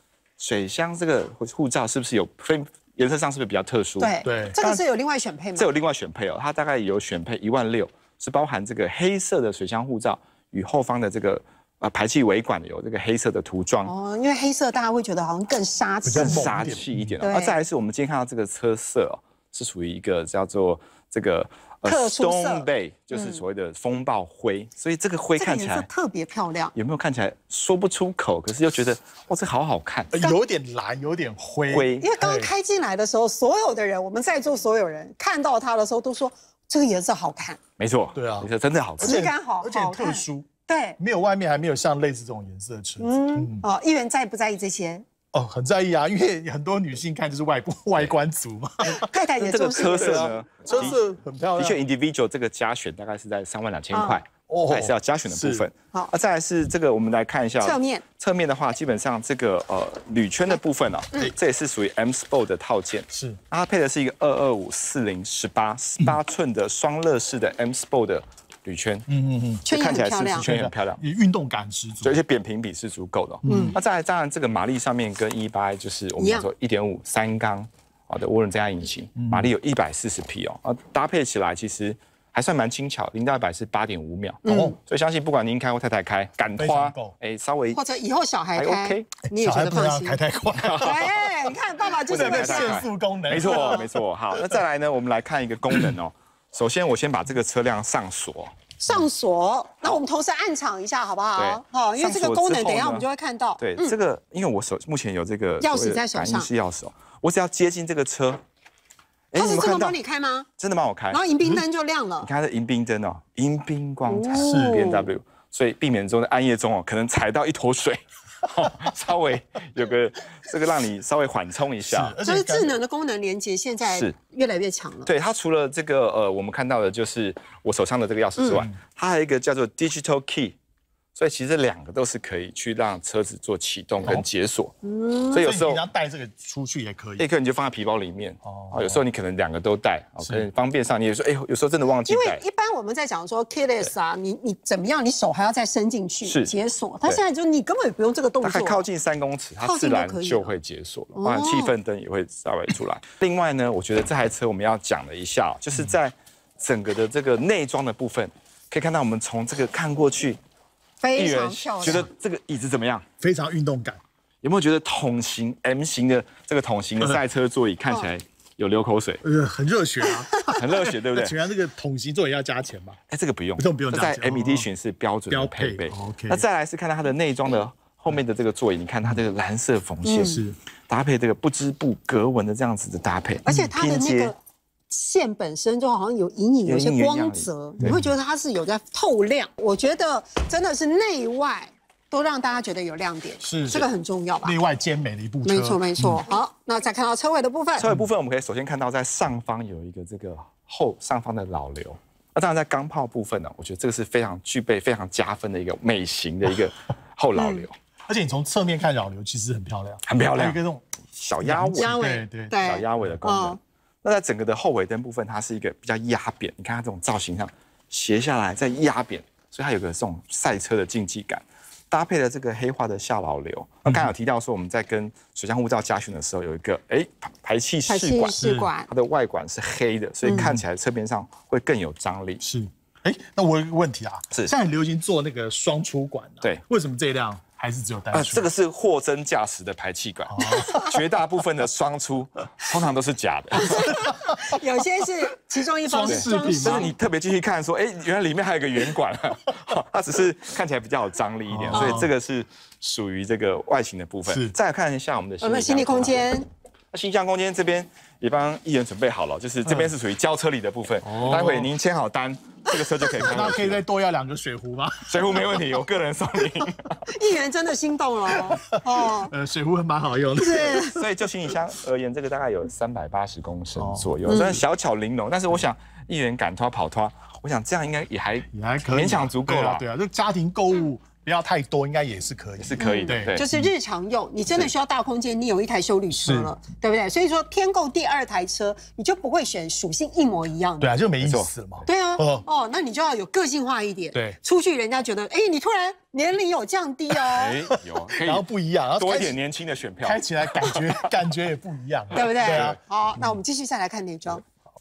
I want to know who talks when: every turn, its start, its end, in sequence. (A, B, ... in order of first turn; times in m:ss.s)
0:00.4-0:04.8 A
0:04.0-0:05.7 B
0:04.2-0:04.6 C
0:05.6-0:13.9 A
0:13.8-0:17.6 B
0:16.0-0:17.1 C
0:16.2-0:25.9 A
0:21.8-0:23.4 B
0:25.4-0:26.7 B
0:26.7-0:30.1 A
0:30.1-0:32.5 C
0:31.7-0:32.0 A
0:32.0-0:37.6 B
0:37.8-0:39.2 A
0:38.1-0:43.6 C
0:39.0-0:41.0 B
0:43.0-0:45.0 B
0:45.3-0:51.8 C
0:48.8-0:51.0 B
0:49.4-0:51.0 A
0:51.6-1:09.0 A
0:53.9-0:54.2 B
0:54.4-0:55.6 C
0:57.6-0:58.0 B
1:03.1-1:03.4 C
1:09.1-1:09.6 C
1:09.6-1:10.5 B
1:09.7-1:11.0 A
1:10.3-1:12.1 C
1:12.0-1:27.8 A
1:13.4-1:13.8 C
1:13.4-1:13.8 B
1:16.2-1:16.5 B
1:19.2-1:19.5 C
1:24.4-1:24.8 B
1:24.4-1:24.8 C
1:26.6-1:27.1 C
1:27.7-1:30.2 B
1:28.5-1:29.1 A
1:29.3-1:31.3 C
1:30.6-1:31.1 A
1:30.8-1:32.8 B
1:32.0-1:33.9 C
1:32.1-1:38.5 A
1:33.4-1:33.8 B
1:38.8-1:44.0 B
1:41.4-1:43.1 A
1:43.6-1:48.4 A
1:45.6-1:46.5 B
1:49.3-1:50.0 A
1:49.4-1:50.5 B
1:50.6-1:51.2 A
1:51.1-1:52.3 B
1:52.2-2:02.1 A
1:54.0-1:55.0 B
1:54.4-1:54.9 C
2:01.8-2:02.8 C
2:02.2-2:05.1 B
2:03.9-2:04.1 A
2:05.0-2:10.6 A
2:11.2-2:14.8 A
2:14.8-2:15.4 B
2:15.3-2:15.8 A
2:15.3-2:17.2 C
2:17.2-2:22.4 A
2:18.4-2:19.0 C
2:22.1-2:28.8 B
2:26.2-2:27.2 A
2:28.4-2:40.4 A
2:29.6-2:30.5 B
2:31.1-2:31.7 B
2:41.0-2:42.1 B
2:41.2-2:43.0 A
2:43.2-2:44.0 C
2:44.4-2:49.2 A
2:49.2-2:53.0 C
2:50.5-2:51.3 A
2:53.1-3:04.3 A
2:53.6-2:54.7 C
2:55.3-2:56.4 C
3:00.0-3:00.4 B
3:00.2-3:00.6 C
3:03.4-3:04.4 B
3:04.9-3:14.5 B
3:06.6-3:07.5 A
3:07.8-3:08.1 C
3:13.4-3:13.8 C
3:14.4-3:16.2 C
3:15.4-3:17.9 B
3:17.8-3:27.7 A
3:27.4-3:27.7 B
3:28.1-3:30.8 C
3:30.0-3:30.6 A
3:31.1-3:32.0 A
3:31.4-3:32.6 C
3:31.8-3:33.6 B
3:32.6-3:52.4 A
3:47.9-3:48.9 B
3:48.4-3:48.7 C
3:50.3-3:50.6 C
3:52.4-3:58.4 C
3:58.1-4:03.9 A
4:00.3-4:00.9 C
4:00.4-4:00.9 B
4:03.5-4:06.9 B
4:05.8-4:06.9 C
4:06.0-4:16.3 A
4:11.5-4:12.1 C
4:14.3-4:14.5 C
4:15.4-4:16.5 B
4:16.9-4:23.8 A
4:21.0-4:21.7 C
4:23.2-4:25.5 C
4:25.1-4:27.0 A
4:27.1-4:29.3 B
4:28.3-4:31.0 C
4:30.4-4:31.0 B
4:30.9-4:39.8 A
4:33.7-4:34.1 C
4:34.3-4:34.6 B
4:38.5-4:43.7 C
4:42.6-4:43.4 A
4:42.8-4:50.9 B
4:46.2-4:46.5 C
4:50.8-4:52.4 C
4:51.2-4:51.5 A
4:51.8-4:57.6 B
4:57.3-4:58.4 A
4:58.2-4:59.3 C
4:59.0-5:00.8 A
5:00.0-5:02.8 C
5:02.1-5:04.4 B